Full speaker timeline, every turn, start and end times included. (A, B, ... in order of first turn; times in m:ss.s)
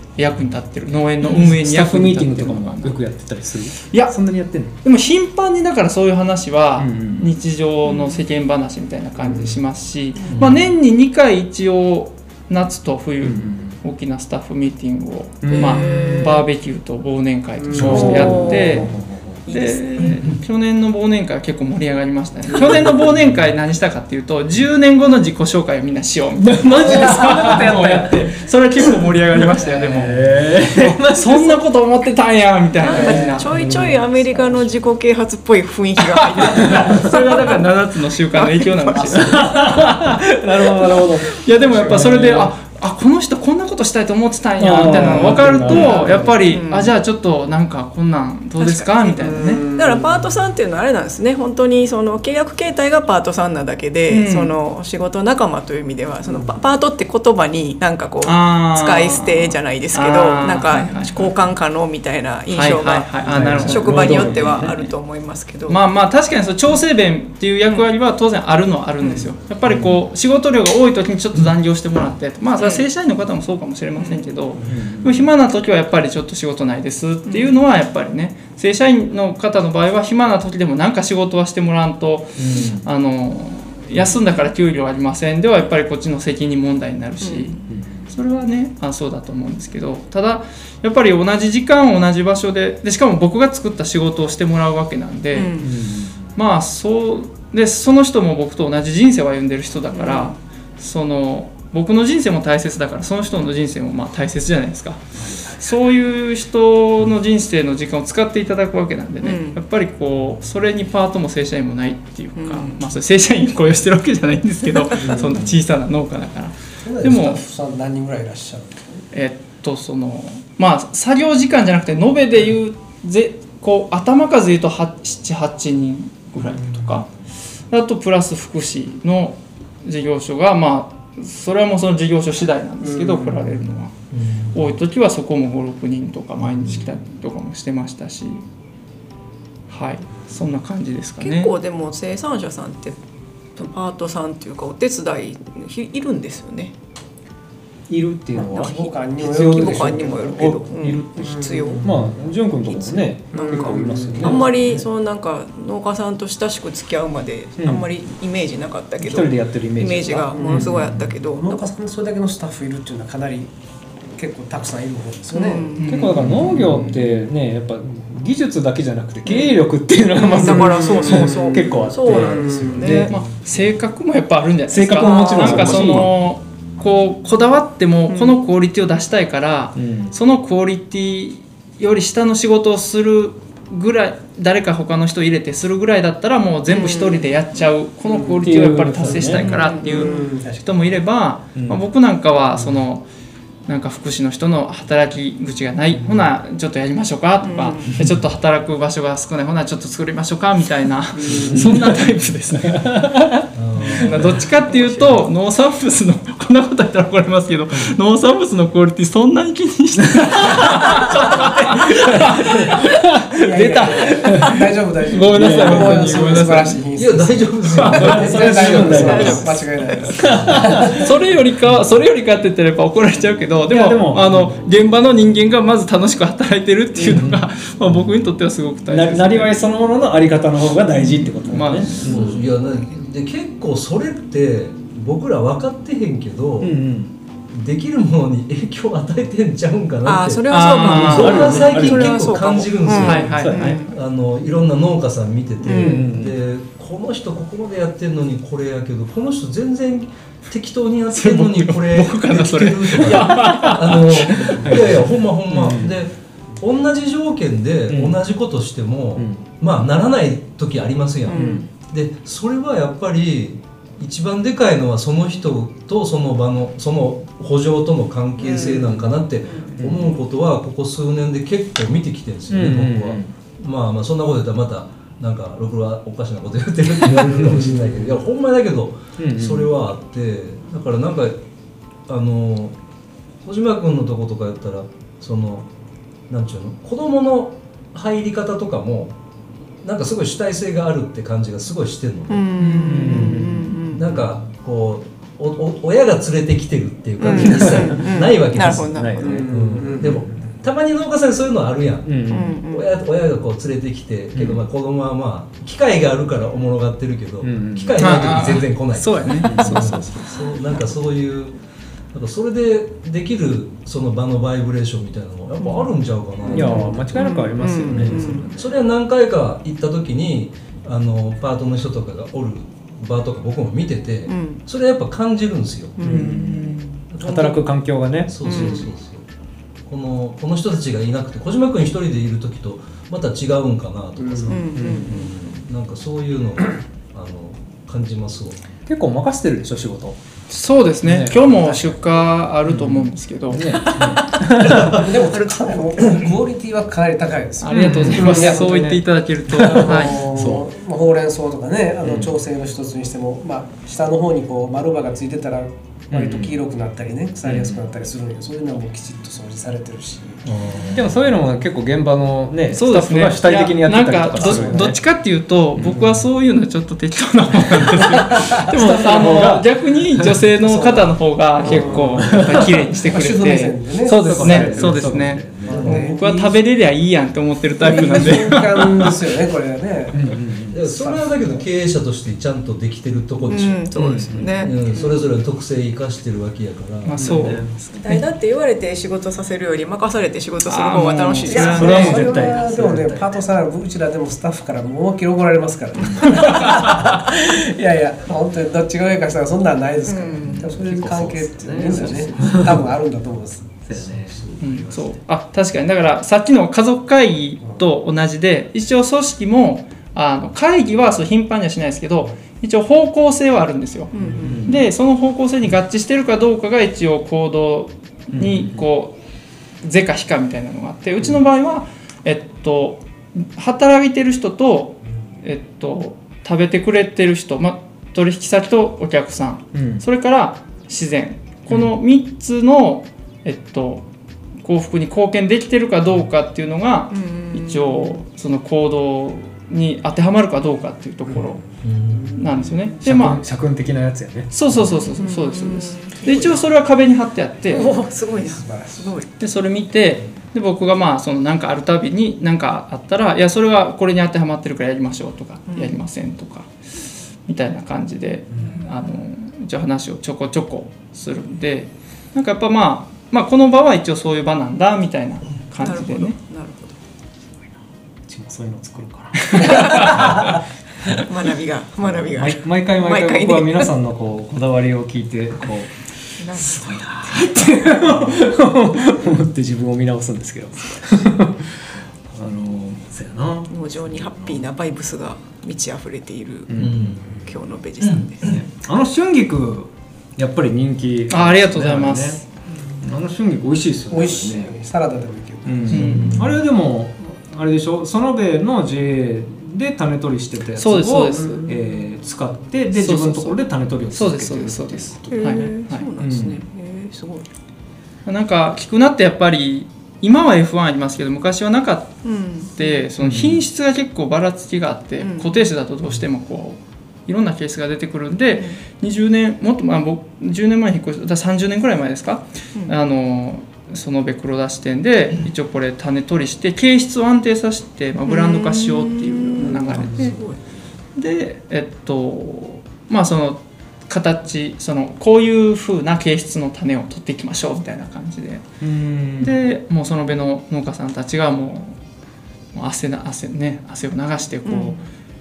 0:00.2-0:03.0 A
0:01.2-0:04.7 B
0:03.8-0:18.9 A
0:06.8-0:07.3 B
0:07.9-0:08.2 C
0:10.4-0:10.7 B
0:13.2-0:13.8 B
0:15.4-0:16.4 B
0:15.5-0:16.4 C
0:17.6-0:18.6 D
0:17.7-0:19.4 B
0:17.8-0:18.9 C
0:19.5-0:19.9 C
0:19.5-0:33.5 A
0:26.4-0:31.6 B
0:32.8-0:37.6 C
0:32.9-0:34.8 D
0:33.5-0:34.0 B
0:36.0-0:40.2 A
0:36.6-0:37.0 B
0:38.3-0:39.4 C
0:39.1-0:42.6 B
0:41.3-0:49.6 A
0:44.6-0:46.4 B
0:44.9-0:45.4 D
0:45.6-0:46.9 C
0:46.0-0:46.3 D
0:48.6-1:05.8 C
0:49.2-0:50.3 D
0:54.1-0:54.5 A
0:56.3-0:56.5 D
0:58.2-1:01.4 A
1:02.5-1:04.9 A
1:03.3-1:04.8 B
1:05.7-1:35.6 A
1:09.0-1:09.3 C
1:09.7-1:10.0 B
1:12.6-1:12.8 C
1:14.0-1:14.2 C
1:14.6-1:15.3 B
1:17.3-1:17.5 C
1:22.4-1:22.9 B
1:27.2-1:27.7 C
1:27.7-1:28.2 B
1:35.3-1:35.7 C
1:35.6-1:36.3 B
1:36.4-1:57.4 A
1:39.9-1:40.4 C
1:45.2-1:45.7 B
1:49.2-1:49.6 C
1:52.4-1:52.8 C
1:54.9-1:55.6 B
1:56.8-1:59.0 D
1:59.1-2:07.1 A
2:06.5-2:07.0 B
2:07.7-2:13.9 A
2:12.8-2:13.6 D
2:14.1-2:14.7 E
2:14.5-2:18.4 A
2:19.7-2:21.5 A
2:21.2-2:23.0 C
2:23.6-2:26.7 C
2:27.9-2:34.8 B
2:28.3-2:32.0 D
2:28.6-2:28.9 C
2:29.5-2:31.8 C
2:32.7-2:41.7 C
2:33.3-2:34.8 D
2:37.6-2:37.8 B
2:39.0-2:41.1 B
2:40.3-2:43.5 D
2:44.2-2:45.8 D
2:45.3-2:45.9 C
2:45.8-2:47.0 A
2:45.8-2:53.2 B
2:49.3-2:49.6 C
2:50.2-2:53.1 C
2:50.4-2:53.1 D
2:52.9-3:13.1 A
2:54.7-2:56.1 B
2:55.0-2:56.1 C
2:58.1-2:58.4 C
2:59.8-3:00.2 B
3:06.7-3:07.3 C
3:08.0-3:11.0 D
3:08.4-3:09.5 B
3:09.3-3:10.3 C
3:11.6-3:11.8 B
3:13.7-3:23.0 A
3:17.4-3:17.9 C
3:21.2-3:21.7 D
3:21.3-3:22.1 B
3:22.7-3:24.4 B
3:23.5-3:24.4 E
3:24.0-3:33.1 A
3:30.0-3:36.7 B
3:33.4-3:41.0 D
3:35.1-3:36.8 A
3:37.0-3:39.2 E
3:37.8-3:39.6 B
3:37.9-3:38.2 A
3:38.9-3:40.2 C
3:40.1-3:41.1 B
3:40.9-3:49.5 A
3:43.7-3:44.4 B
3:47.0-3:47.5 B
3:48.9-3:52.4 B
3:51.5-3:52.1 A
3:51.8-3:56.8 E
3:56.6-3:57.1 B
3:57.5-4:41.4 E
4:00.1-4:03.9 C
4:00.5-4:01.6 A
4:00.9-4:02.4 B
4:02.9-4:03.6 A
4:03.0-4:03.8 B
4:05.6-4:06.1 C
4:05.7-4:06.4 B
4:11.1-4:14.7 A
4:13.1-4:13.9 B
4:14.5-4:16.0 B
4:17.9-4:18.2 B
4:19.2-4:19.4 B
4:21.3-4:21.7 C
4:21.3-4:21.7 B
4:28.4-4:29.9 C
4:29.8-4:30.1 B
4:32.5-4:33.3 B
4:37.2-4:37.6 B
4:37.6-4:38.0 D
4:39.2-4:39.7 B
4:42.1-4:42.8 E
4:43.4-4:45.7 E
4:46.3-4:49.2 E
4:49.8-4:52.5 E
4:52.3-4:54.1 C
4:52.6-4:53.7 B
4:53.0-5:11.6 E
4:57.2-4:59.5 C
4:57.4-4:58.0 B
4:58.8-5:00.5 B
4:59.2-5:00.2 D
5:02.0-5:02.6 B
5:02.3-5:02.9 C
5:04.4-5:04.6 B
5:07.4-5:08.5 B
5:08.0-5:10.4 A
5:09.5-5:10.0 B
5:12.1-5:17.2 E
5:15.6-5:15.9 C
5:16.5-5:18.6 B
5:16.5-5:18.5 C
5:17.8-5:26.1 E
5:24.3-5:24.6 C
5:26.0-5:26.7 C
5:26.0-5:28.8 B
5:26.1-5:27.0 A
5:27.1-5:27.6 E
5:28.2-5:29.3 E
5:28.4-5:28.9 C
5:29.9-5:38.6 E
5:34.2-5:34.6 D
5:34.5-5:35.3 C
5:34.7-5:35.1 B
5:38.9-5:40.2 B
5:40.5-5:43.9 A
5:41.0-5:41.8 B
5:42.7-5:45.1 B
5:43.8-5:44.2 C
5:44.6-5:44.9 E
5:44.6-5:48.9 D
5:47.6-5:50.3 A
5:47.7-5:50.7 B
5:49.6-6:01.0 D
5:52.0-5:52.3 B
5:56.1-5:56.6 B
5:57.4-5:57.8 B
6:00.4-6:01.0 E
6:00.9-6:05.0 B
6:02.7-6:19.2 A
6:04.5-6:04.8 D
6:05.8-6:06.2 B
6:08.5-6:10.4 B
6:08.7-6:09.4 D
6:10.6-6:16.6 D
6:11.6-6:12.9 B
6:14.2-6:16.1 B
6:15.7-6:16.1 E
6:17.8-6:21.7 D
6:20.1-6:20.8 B
6:20.7-6:27.7 E
6:23.5-6:25.2 C
6:24.0-6:24.7 B
6:27.0-6:28.2 A
6:27.2-6:27.7 B
6:28.0-6:32.7 C
6:30.7-6:32.2 A
6:31.4-6:43.8 D
6:31.5-6:33.2 B
6:36.2-6:37.0 B
6:40.1-6:40.6 C
6:40.4-6:42.9 B
6:43.8-6:45.1 B
6:44.6-6:54.1 A
6:54.1-6:54.7 C
6:54.1-6:54.6 D
6:54.4-6:54.8 B
6:54.7-6:59.2 A
6:58.3-6:58.9 B
6:59.8-7:14.1 A
7:09.7-7:10.0 B
7:14.6-7:21.6 A
7:17.1-7:18.2 C
7:21.8-7:22.4 E
7:22.1-7:22.4 D
7:22.4-7:23.4 A
7:23.0-7:24.5 B
7:24.5-7:28.0 A
7:25.2-7:26.6 C
7:27.7-7:29.3 C
7:27.8-7:29.2 D
7:29.4-7:36.7 A
7:35.7-7:36.0 C
7:37.5-7:46.4 A
7:45.8-7:47.0 C
7:48.3-7:50.6 B
7:49.4-7:50.1 A
7:49.7-7:50.2 C
7:51.1-7:53.9 C
7:52.3-8:04.6 B
7:56.4-7:57.8 C
8:03.7-8:08.6 C
8:06.7-8:07.5 B
8:06.8-8:07.4 E
8:08.0-8:08.6 E
8:08.4-8:12.5 B
8:11.3-8:12.4 A
8:13.0-8:14.8 B
8:14.1-8:16.3 D
8:15.6-8:26.6 B
8:15.9-8:16.4 A
8:15.9-8:16.6 E
8:20.8-8:21.7 A
8:21.4-8:21.8 D
8:23.0-8:23.6 A
8:24.1-8:26.1 A
8:25.3-8:27.5 C
8:28.2-8:50.4 A
8:32.2-8:33.0 C
8:33.2-8:33.6 B
8:35.2-8:35.6 C
8:48.3-8:50.6 C
8:49.9-8:50.2 D
8:51.2-8:58.7 A
8:58.8-8:59.6 B
8:59.4-9:02.0 A
9:02.7-9:05.0 A
9:04.7-9:05.0 C